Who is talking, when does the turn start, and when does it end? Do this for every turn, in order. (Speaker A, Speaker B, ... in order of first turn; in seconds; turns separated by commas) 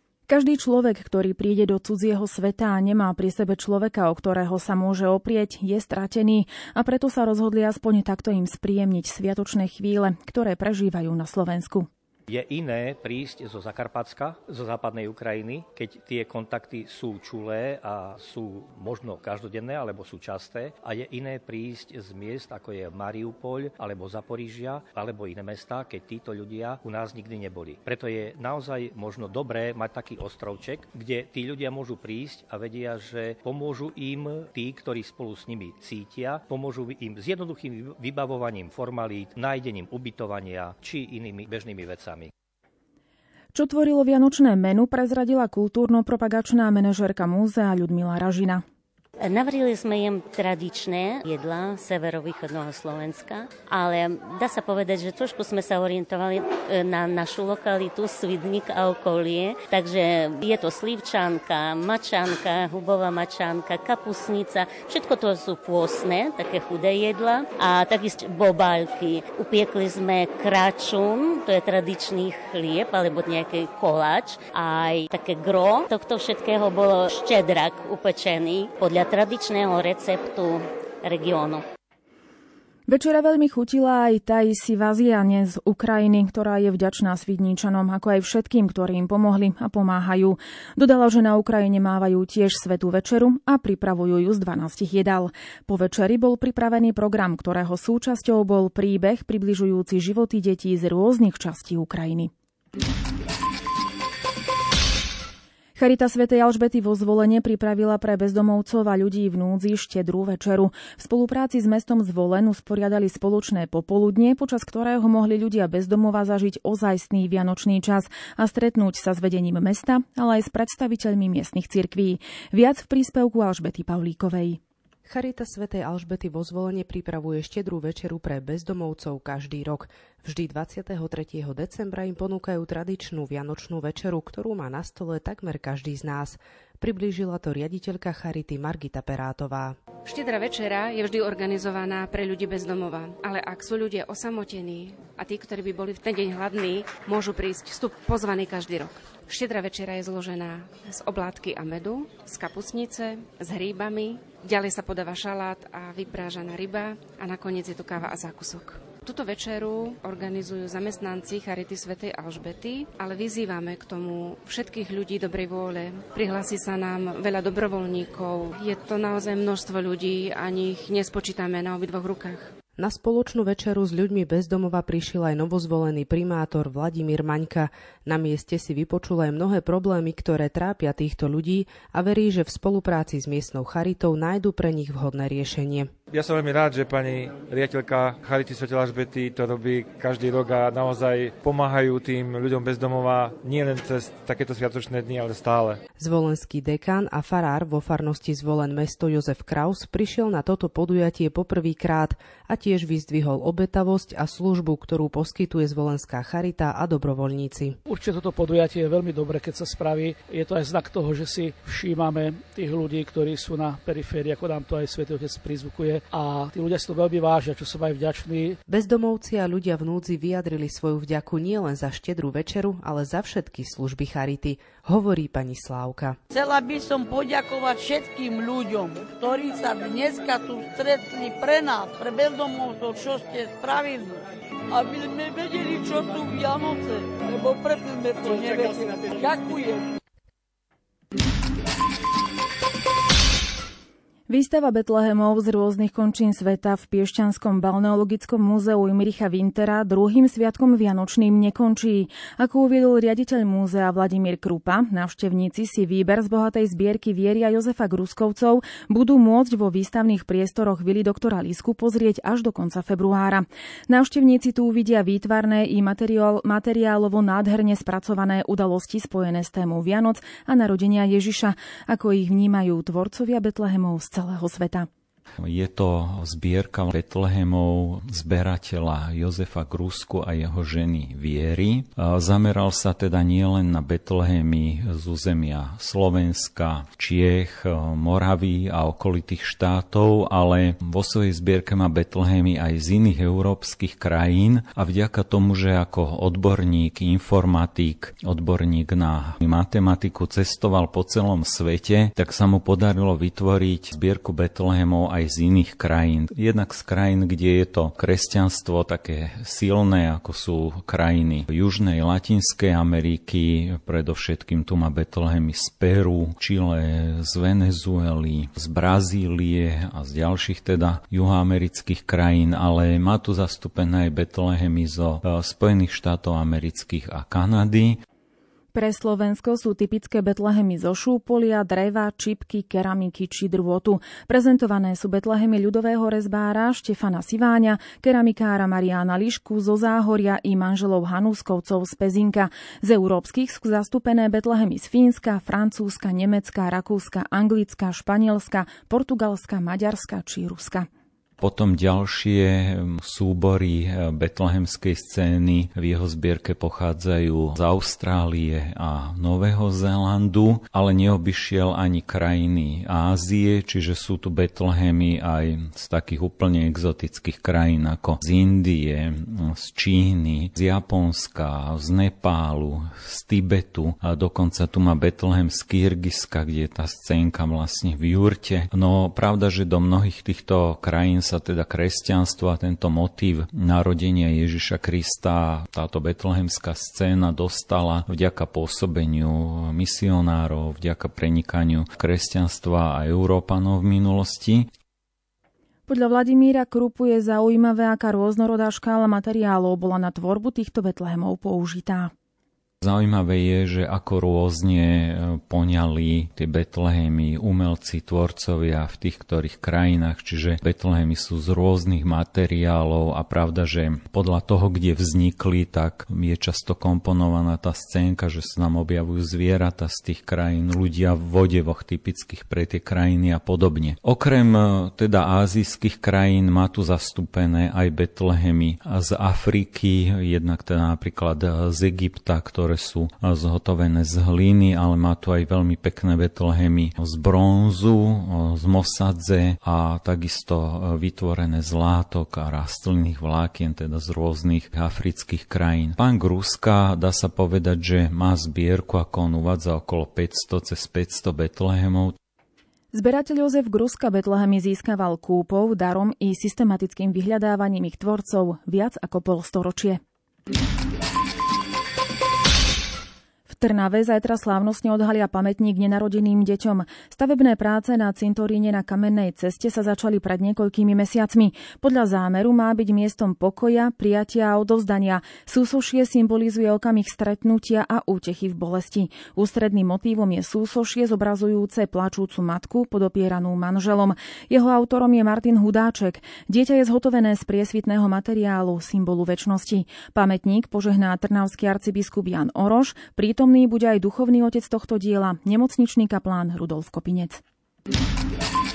Speaker A: 0.3-11.9, Speaker B: 12.3-42.3, Speaker A: 43.5-48.6, Speaker C: 49.2-81.7, Speaker A: 82.9-102.3, Speaker A: 105.8-124.6, Speaker D: 125.1-139.8, Speaker E: 140.0-172.5, Speaker D: 172.8-185.9, Speaker F: 186.1-195.8, Speaker D: 196.0-207.8, Speaker G: 207.9-218.6, Speaker D: 218.7-226.2, Speaker H: 226.3-234.2, Speaker H: 234.7-239.9, Speaker A: 244.3-274.9, Speaker I: 275.4-328.0, Speaker A: 328.7-350.9, Speaker I: 351.4-394.7, Speaker A: 395.9-402.1, Speaker I: 402.8-452.2, Speaker A: 452.9-460.0, Speaker A: 463.5-497.4